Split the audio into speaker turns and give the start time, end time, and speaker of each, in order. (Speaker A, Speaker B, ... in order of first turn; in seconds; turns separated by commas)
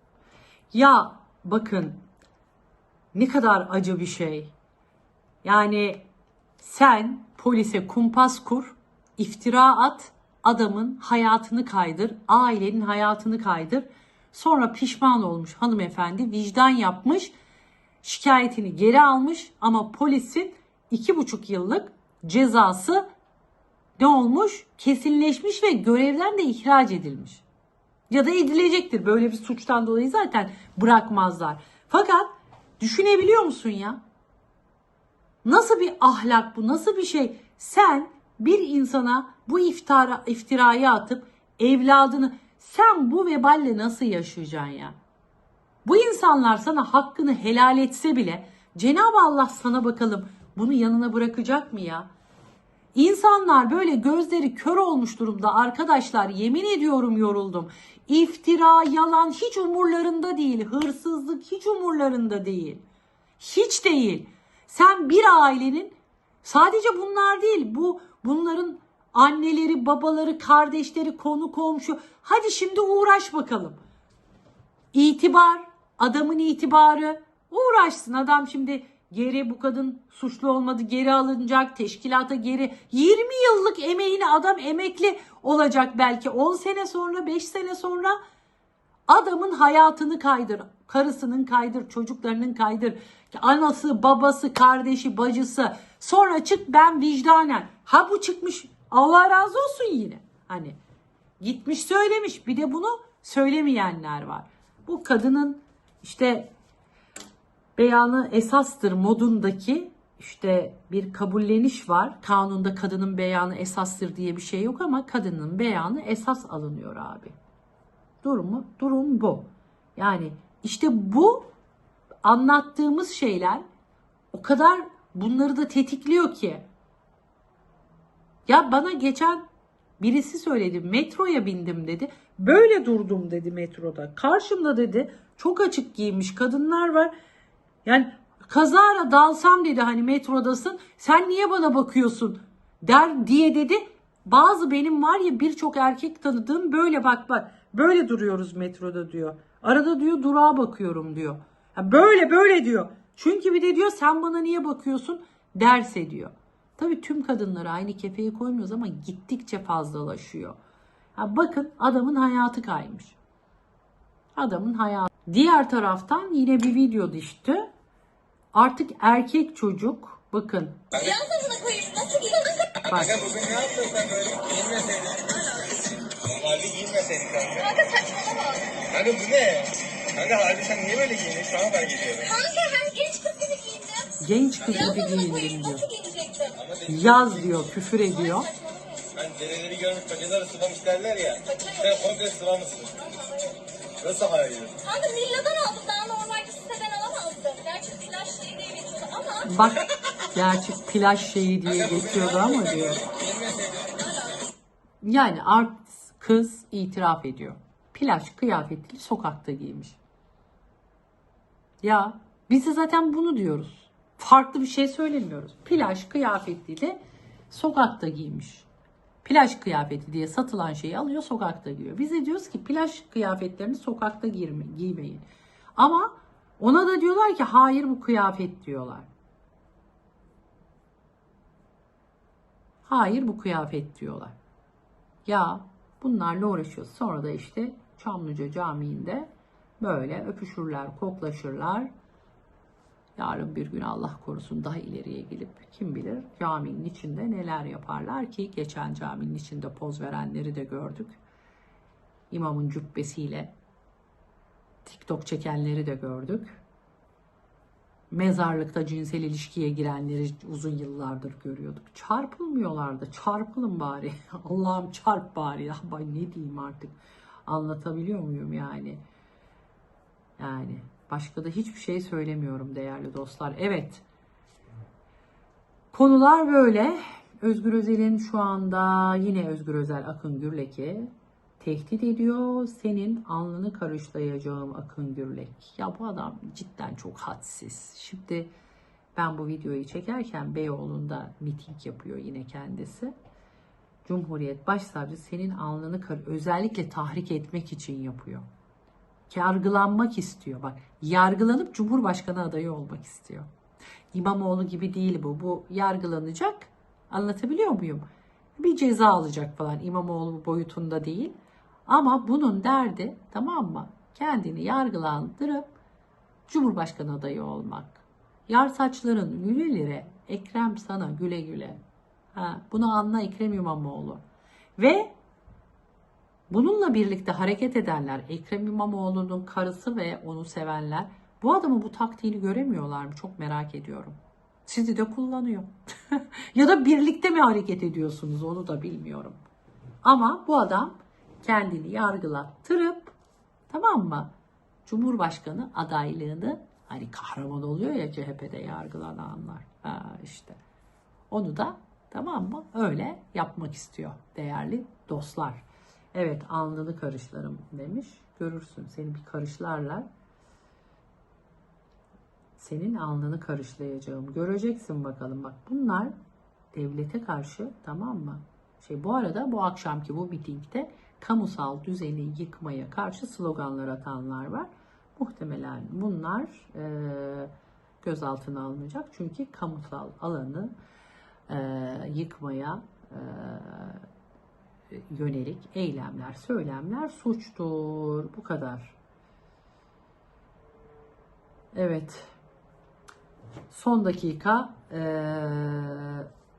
Speaker A: 0.7-2.0, Speaker A: 3.1-4.5, Speaker A: 5.4-6.0, Speaker A: 6.6-17.3, Speaker A: 18.0-23.1, Speaker A: 24.0-27.4, Speaker A: 28.1-34.0, Speaker A: 35.4-45.0, Speaker A: 45.8-52.1, Speaker A: 52.9-62.8, Speaker A: 63.4-73.8, Speaker A: 74.9-88.2, Speaker A: 89.1-100.8, Speaker A: 101.4-106.5, Speaker A: 107.8-117.3, Speaker A: 118.2-121.5, Speaker A: 122.2-123.6, Speaker A: 124.3-126.7, Speaker A: 128.5-129.4, Speaker A: 130.0-137.1, Speaker A: 137.8-160.6, Speaker A: 161.2-163.2, Speaker A: 164.3-167.7, Speaker A: 168.5-170.8, Speaker B: 170.9-172.7, Speaker C: 172.8-175.3, Speaker A: 172.9-173.1, Speaker C: 176.2-177.7, Speaker B: 177.6-178.7, Speaker C: 178.9-182.3, Speaker B: 182.2-186.5, Speaker A: 184.2-185.8, Speaker C: 186.6-187.7, Speaker A: 186.9-188.5, Speaker B: 188.0-189.1, Speaker C: 189.1-192.9, Speaker B: 191.4-192.0, Speaker B: 193.0-193.6, Speaker C: 194.0-194.7, Speaker B: 194.8-199.7, Speaker A: 199.4-199.8, Speaker A: 200.3-203.0, Speaker C: 201.6-204.0, Speaker A: 205.0-210.0, Speaker A: 211.8-217.0, Speaker A: 217.5-218.7, Speaker A: 219.2-225.2, Speaker A: 225.8-229.1, Speaker A: 232.8-234.3, Speaker A: 235.2-239.3, Speaker A: 239.8-241.9, Speaker A: 243.2-251.2, Speaker A: 252.3-253.5, Speaker A: 254.8-256.6, Speaker A: 258.1-266.9, Speaker A: 267.5-269.0, Speaker A: 270.4-274.0, Speaker A: 275.9-288.5, Speaker A: 289.1-293.1, Speaker A: 294.1-298.4, Speaker A: 299.3-303.5, Speaker A: 304.1-308.1, Speaker A: 308.6-311.3, Speaker A: 311.9-315.7, Speaker A: 316.5-321.8, Speaker A: 322.3-324.2, Speaker A: 324.8-325.1, Speaker A: 326.5-339.4, Speaker A: 340.0-343.1, Speaker A: 343.7-344.3, Speaker A: 344.9-350.6, Speaker A: 351.3-360.1, Speaker A: 362.6-366.1, Speaker A: 366.7-380.7, Speaker A: 381.5-384.0, Speaker A: 384.9-388.9, Speaker A: 391.7-392.3, Speaker A: 393.7-396.3